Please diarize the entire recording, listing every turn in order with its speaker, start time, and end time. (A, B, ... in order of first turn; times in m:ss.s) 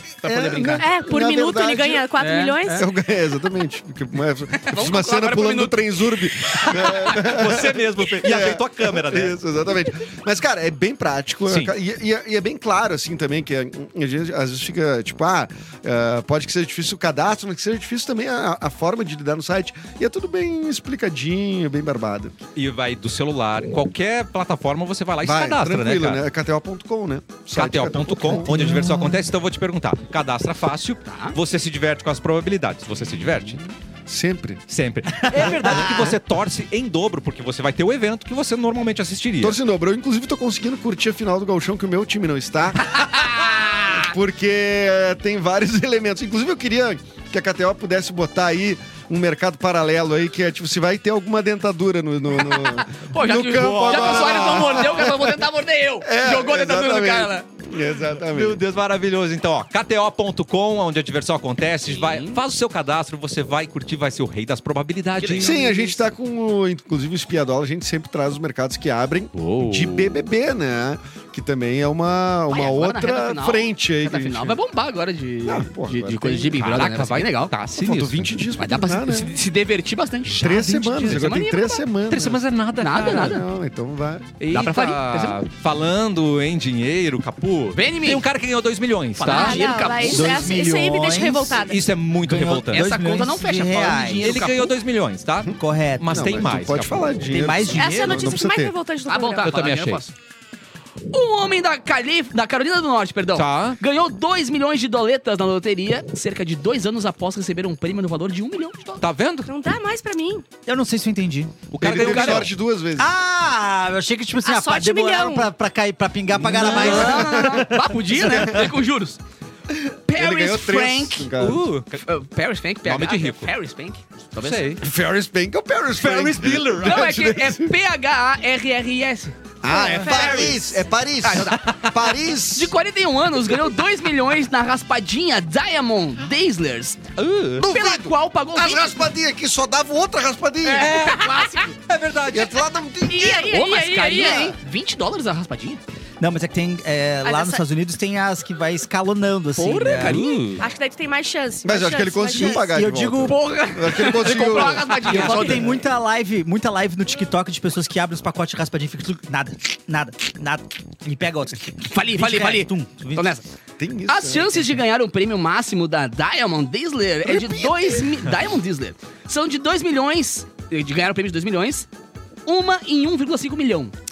0:00.2-0:00.9 A
0:00.2-0:02.1 B
0:00.7-0:02.8 C
0:02.2-0:02.8 A
0:02.7-0:22.4 B
0:04.6-0:07.0 A
0:07.1-0:09.4 D
0:11.5-0:11.7 D
0:22.5-0:26.2 D
0:25.2-0:28.8 B
0:27.5-0:33.6 D
0:28.4-0:29.2 E
0:31.0-0:31.4 A
0:34.1-0:34.6 B
0:34.7-0:39.6 D
0:35.2-0:36.1 E
0:35.3-0:36.2 B
0:39.4-0:55.4 B
0:42.9-0:44.0 A
0:52.3-0:57.4 A
0:53.5-0:54.7 D
0:56.0-0:58.6 B
0:58.3-1:05.6 D
1:01.9-1:02.4 A
1:05.2-1:06.0 A
1:05.3-1:14.6 B
1:09.3-1:10.2 D
1:12.5-1:17.5 A
1:15.4-1:16.5 B
1:16.5-1:18.4 D
1:17.8-1:19.3 B
1:18.6-1:21.9 A
1:20.3-1:21.4 E
1:20.4-1:24.3 B
1:22.1-1:23.4 D
1:22.8-1:23.4 A
1:24.4-1:30.1 D
1:24.4-1:25.4 A
1:27.7-1:28.3 A
1:29.2-1:30.5 A
1:29.3-1:31.8 C
1:29.4-1:31.6 E
1:31.6-1:32.9 D
1:32.2-1:34.4 E
1:32.7-1:34.7 A
1:34.2-1:37.1 D
1:35.6-1:36.0 E
1:36.1-1:38.7 B
1:37.3-1:38.4 E
1:37.7-1:39.6 C
1:39.1-1:40.1 A
1:39.4-1:40.0 D
1:41.1-1:49.0 A
1:43.3-1:43.8 D
1:49.0-1:49.5 D
1:49.5-1:50.4 C
1:50.6-1:51.6 E
1:51.7-1:52.5 D
1:51.8-1:53.1 B
1:51.8-1:52.5 A
1:53.0-1:57.8 E
1:54.4-1:55.5 C
1:56.3-1:58.7 B
1:56.6-1:59.2 A
1:56.7-1:57.2 D
2:00.1-2:01.3 A
2:00.1-2:01.7 B
2:01.4-2:02.0 D
2:02.0-2:04.8 A
2:02.8-2:03.5 D
2:04.4-2:04.8 D
2:04.8-2:07.7 B
2:06.0-2:07.1 D
2:06.8-2:09.3 A
2:09.6-2:12.7 B
2:09.7-2:10.9 C
2:10.1-2:10.5 A
2:11.2-2:11.7 A
2:11.6-2:11.8 D
2:12.5-2:17.0 A
2:17.2-2:17.7 D
2:17.6-2:19.0 A
2:17.6-2:21.1 B
2:20.6-2:21.7 A
2:20.8-2:22.6 D
2:21.2-2:21.6 C
2:22.3-2:23.5 B
2:23.0-2:24.5 C
2:23.1-2:25.8 A
2:26.2-2:30.3 E
2:27.2-2:27.6 C
2:29.6-2:30.4 A
2:29.9-2:30.7 D
2:30.5-2:32.7 C
2:31.6-2:35.5 B
2:32.3-2:33.4 E
2:33.2-2:35.8 A
2:34.5-2:43.4 E
2:41.9-2:43.4 A
2:43.8-2:44.7 B
2:44.1-2:51.8 A
2:47.4-2:47.7 E
2:52.4-2:53.9 A